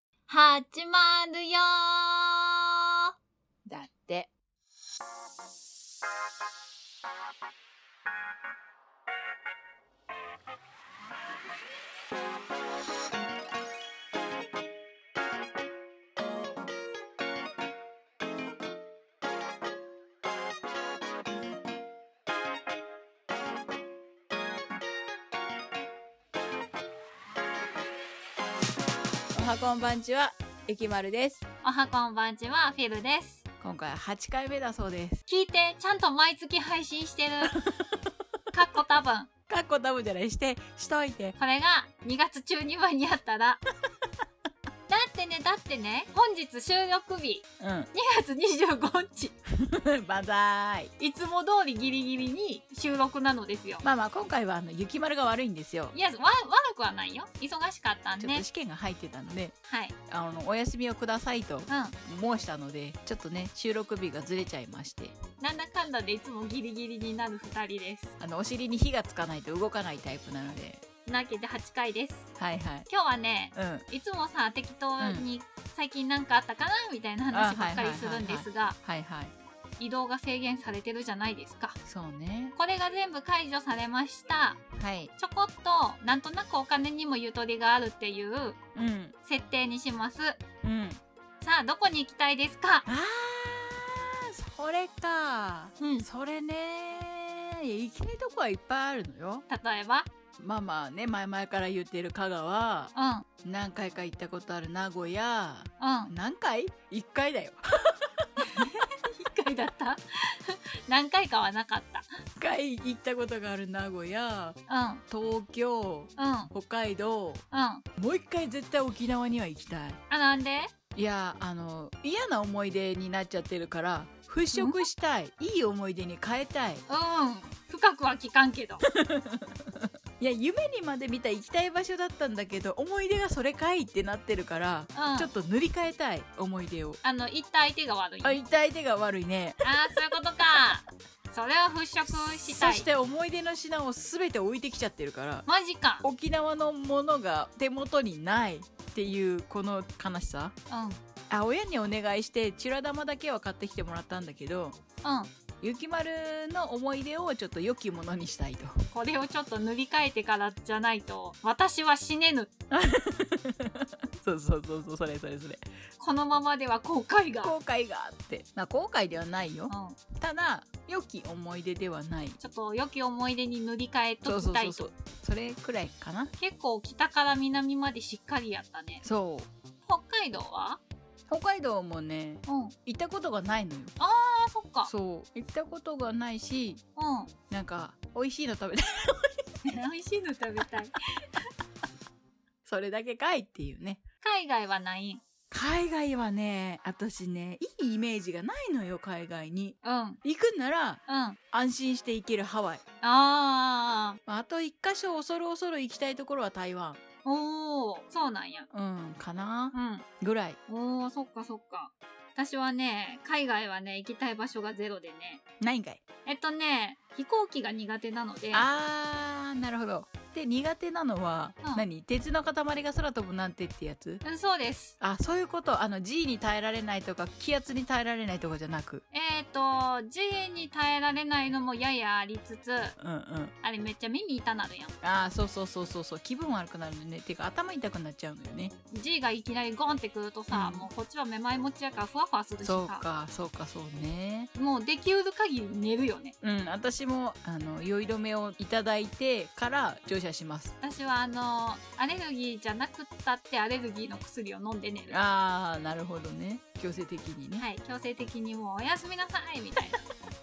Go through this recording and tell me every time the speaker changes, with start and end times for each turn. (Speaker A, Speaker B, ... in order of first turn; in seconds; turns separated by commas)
Speaker A: 0.3-2.6, Speaker B: 3.6-4.3, Speaker B: 29.3-31.4, Speaker A: 31.6-33.4, Speaker B: 33.6-35.2, Speaker A: 35.3-37.5, Speaker B: 37.5-38.0, Speaker A: 38.5-39.3, Speaker B: 39.5-41.4, Speaker A: 41.4-43.6, Speaker A: 44.9-49.3, Speaker B: 47.6-47.9, Speaker B: 49.6-50.9, Speaker A: 51.0-53.8, Speaker B: 53.8-55.9, Speaker A: 55.9-58.5, Speaker B: 58.2-59.5, Speaker A: 59.7-59.9, Speaker B: 60.1-65.2, Speaker A: 61.7-62.0, Speaker A: 65.4-68.1, Speaker B: 68.2-70.8, Speaker A: 71.0-72.3, Speaker B: 72.4-72.9, Speaker A: 72.9-78.8, Speaker B: 73.5-73.8, Speaker B: 75.0-75.3, Speaker B: 77.3-79.3, Speaker A: 79.8-81.8, Speaker B: 81.8-82.5, Speaker A: 82.5-84.6, Speaker B: 84.7-85.1, Speaker A: 85.2-88.6, Speaker B: 88.7-89.1, Speaker A: 89.2-90.4, Speaker B: 90.6-91.0, Speaker A: 91.4-92.8, Speaker B: 92.9-99.4, Speaker A: 95.8-96.0, Speaker A: 99.5-100.1, Speaker B: 100.4-102.9, Speaker A: 102.9-103.2, Speaker B: 103.4-108.2, Speaker A: 105.8-106.1, Speaker A: 108.4-112.1, Speaker B: 112.4-114.6, Speaker A: 114.7-115.0, Speaker B: 115.1-117.4, Speaker A: 116.2-116.5, Speaker A: 117.5-117.8, Speaker B: 118.0-120.0, Speaker A: 120.1-120.7, Speaker B: 120.9-126.8, Speaker A: 124.5-124.8, Speaker A: 126.9-128.8, Speaker B: 128.9-137.0, Speaker A: 134.9-135.3, Speaker A: 137.0-138.4, Speaker B: 138.2-139.7, Speaker A: 139.6-142.9, Speaker B: 142.3-145.4, Speaker A: 145.5-146.0, Speaker B: 146.0-150.5, Speaker A: 150.7-151.0, Speaker B: 151.3-154.8, Speaker A: 155.0-155.3, Speaker B: 155.6-158.7, Speaker A: 158.9-162.5, Speaker B: 162.7-165.6, Speaker A: 166.0-167.5, Speaker B: 167.4-172.4, Speaker A: 169.7-170.0, Speaker A: 172.4-174.9, Speaker B: 174.2-176.3, Speaker A: 176.4-179.0, Speaker B: 179.0-179.5, Speaker A: 179.8-180.8, Speaker B: 181.3-183.9, Speaker A: 182.4-182.7, Speaker A: 184.0-184.9, Speaker B: 184.8-186.8, Speaker A: 186.9-187.3, Speaker B: 187.5-189.8, Speaker A: 189.6-191.4, Speaker B: 192.6-194.0, Speaker A: 194.2-195.2, Speaker B: 195.5-202.8, Speaker A: 199.8-200.2, Speaker A: 201.1-201.4, Speaker A: 203.0-204.2, Speaker B: 204.2-207.0, Speaker A: 207.2-208.7, Speaker B: 208.7-210.6, Speaker A: 209.7-210.1, Speaker A: 210.7-215.4, Speaker B: 215.6-216.0, Speaker A: 216.2-218.7, Speaker B: 218.5-224.2, Speaker A: 224.2-224.9, Speaker B: 225.0-229.0, Speaker A: 229.1-232.9, Speaker B: 233.0-233.5, Speaker A: 233.6-234.9, Speaker B: 235.0-238.7, Speaker A: 238.9-243.0, Speaker B: 240.5-240.9, Speaker B: 242.6-244.5, Speaker A: 244.5-246.3, Speaker B: 246.4-250.7, Speaker A: 250.8-255.2, Speaker B: 255.1-257.6, Speaker A: 257.6-260.1